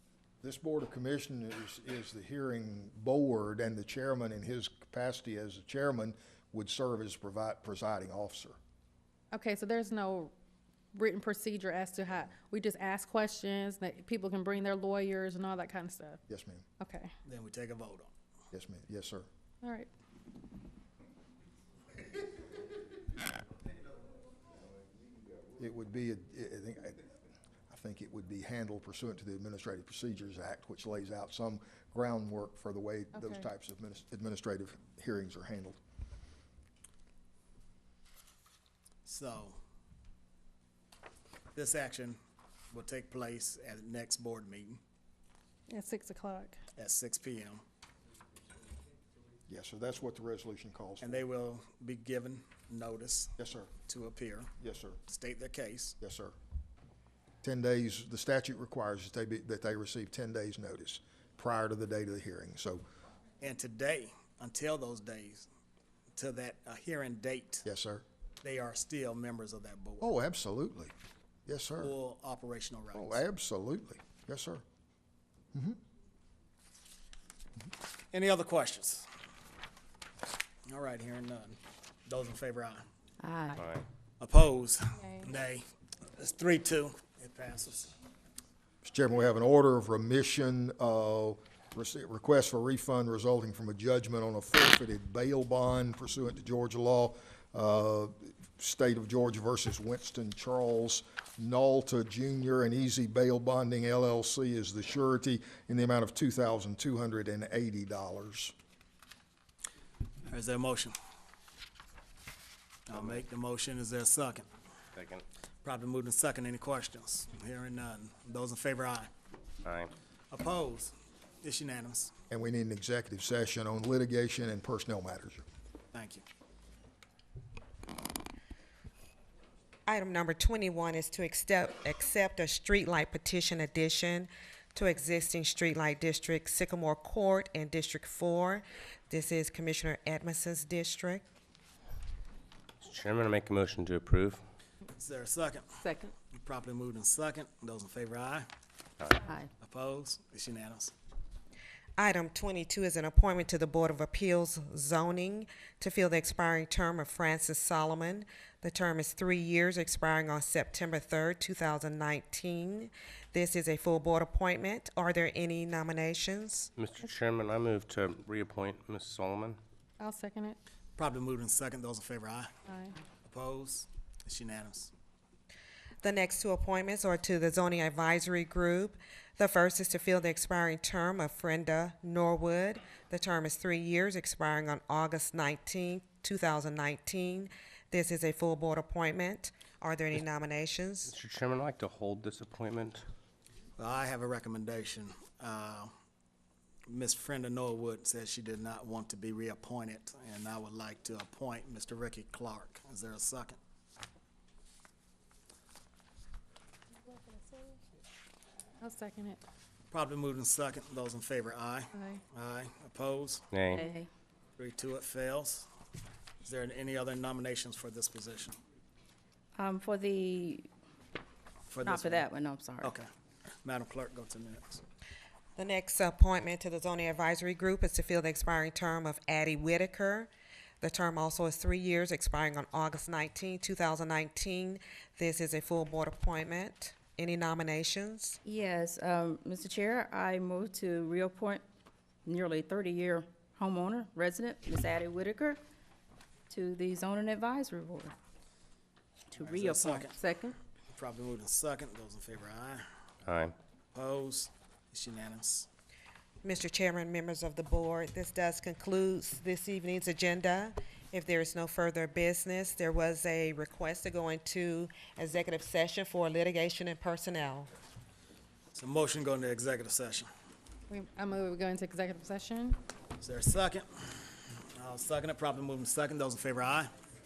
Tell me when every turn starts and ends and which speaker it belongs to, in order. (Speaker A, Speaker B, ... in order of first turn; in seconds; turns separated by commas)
Speaker A: 0.4-8.6, Speaker B: 9.3-10.3, Speaker B: 10.9-16.2, Speaker A: 16.3-16.6, Speaker B: 16.8-17.1, Speaker C: 17.2-18.1, Speaker A: 18.5-19.3, Speaker B: 19.6-19.9, Speaker A: 25.6-27.1, Speaker A: 27.7-35.8, Speaker B: 33.1-33.5, Speaker C: 39.0-39.6, Speaker C: 41.5-42.2, Speaker C: 42.7-44.8, Speaker B: 45.7-46.6, Speaker C: 46.8-47.6, Speaker A: 49.5-51.2, Speaker C: 51.0-53.3, Speaker A: 53.4-53.7, Speaker C: 53.9-54.5, Speaker A: 54.6-55.0, Speaker C: 55.1-56.0, Speaker A: 56.0-56.3, Speaker A: 57.4-62.8, Speaker C: 63.4-65.5, Speaker C: 66.1-67.7, Speaker A: 67.6-68.0, Speaker C: 68.4-70.1, Speaker A: 70.0-70.9, Speaker A: 71.5-71.9, Speaker C: 71.8-73.2, Speaker A: 72.9-74.6, Speaker A: 75.5-75.8, Speaker C: 78.1-79.1, Speaker C: 80.7-82.8, Speaker D: 83.2-83.7, Speaker E: 83.5-83.8, Speaker C: 84.2-87.9, Speaker B: 85.0-85.3, Speaker A: 88.8-108.5, Speaker C: 110.3-110.9, Speaker C: 112.9-114.5, Speaker E: 112.9-113.2, Speaker E: 114.9-115.2, Speaker C: 115.6-119.1, Speaker E: 119.6-119.9, Speaker C: 120.3-122.1, Speaker A: 122.3-125.4, Speaker C: 125.9-126.2, Speaker F: 129.9-141.2, Speaker E: 142.8-144.4, Speaker C: 144.9-145.7, Speaker C: 146.3-148.5, Speaker D: 149.2-149.5, Speaker C: 149.6-150.9, Speaker F: 152.0-166.7, Speaker E: 166.8-169.6, Speaker B: 170.0-170.6, Speaker C: 171.0-172.5, Speaker B: 172.7-172.9, Speaker C: 173.3-174.9, Speaker F: 176.0-191.1, Speaker E: 191.1-193.0, Speaker C: 193.8-195.9, Speaker C: 196.9-203.6, Speaker B: 207.1-207.8, Speaker B: 208.8-209.4, Speaker C: 209.9-213.4, Speaker B: 211.9-212.2, Speaker E: 213.5-213.8, Speaker D: 213.7-214.1, Speaker C: 214.6-215.7, Speaker C: 216.4-218.6, Speaker D: 219.6-220.7, Speaker C: 221.7-222.3, Speaker D: 221.8-222.9, Speaker C: 222.8-223.1, Speaker C: 223.6-224.8, Speaker F: 225.6-230.3, Speaker F: 230.8-238.4, Speaker D: 238.4-241.6, Speaker D: 242.2-245.6, Speaker D: 246.5-248.1, Speaker D: 249.3-250.6, Speaker C: 249.4-250.2, Speaker C: 250.9-252.8, Speaker E: 253.2-253.5, Speaker C: 253.9-255.7, Speaker F: 256.4-267.7, Speaker C: 268.7-270.3, Speaker B: 270.9-272.8, Speaker C: 273.2-276.9